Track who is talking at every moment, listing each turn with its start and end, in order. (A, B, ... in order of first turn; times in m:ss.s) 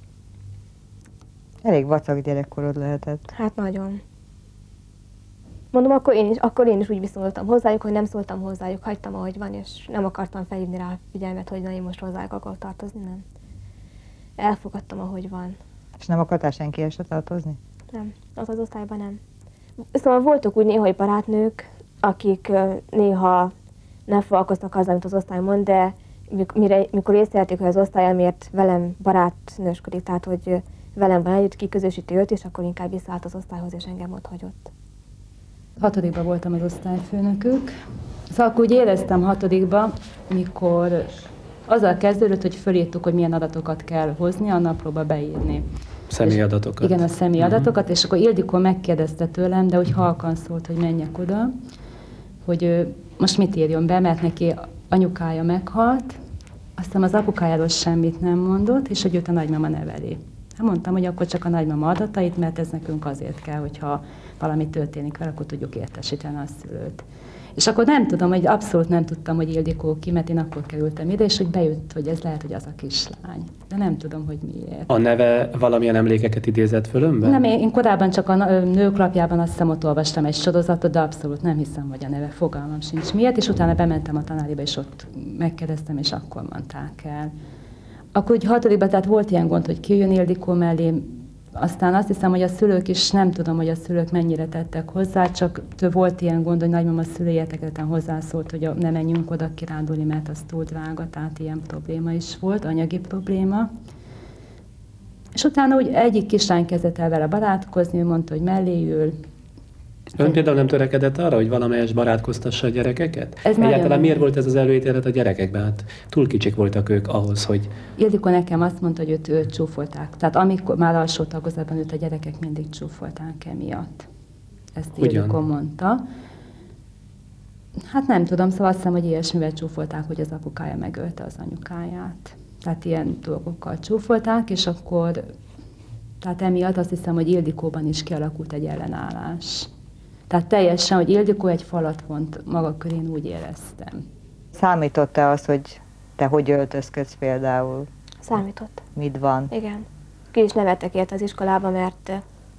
0:01.6-0:03.3 A
0:03.3-0:04.0 B
0:05.7-0:13.2 B
0:14.4-0:15.6 B
0:16.0-0:17.6 A
0:17.9-0:19.2 B
0:19.9-0:23.5 B
0:24.1-0:34.7 B
0:35.8-0:37.7 C
0:38.3-0:45.6 C
0:46.1-0:47.7 D
0:46.2-0:51.5 C
0:52.4-0:56.2 C
0:56.8-1:07.0 C
1:07.6-1:14.9 C
1:14.9-1:17.4 D
1:17.2-1:27.3 C
1:28.1-1:43.7 C
1:45.3-1:49.2 C
1:50.2-1:57.7 D
1:53.4-1:54.2 C
1:58.0-2:04.1 C
2:04.7-2:06.0 C
2:05.0-2:05.4 D
2:07.9-2:15.3 C
2:16.2-2:19.7 C
2:20.3-2:24.0 C
2:24.5-2:27.9 A
2:28.2-2:28.8 B
2:29.0-2:29.5 A
2:29.5-2:32.2 B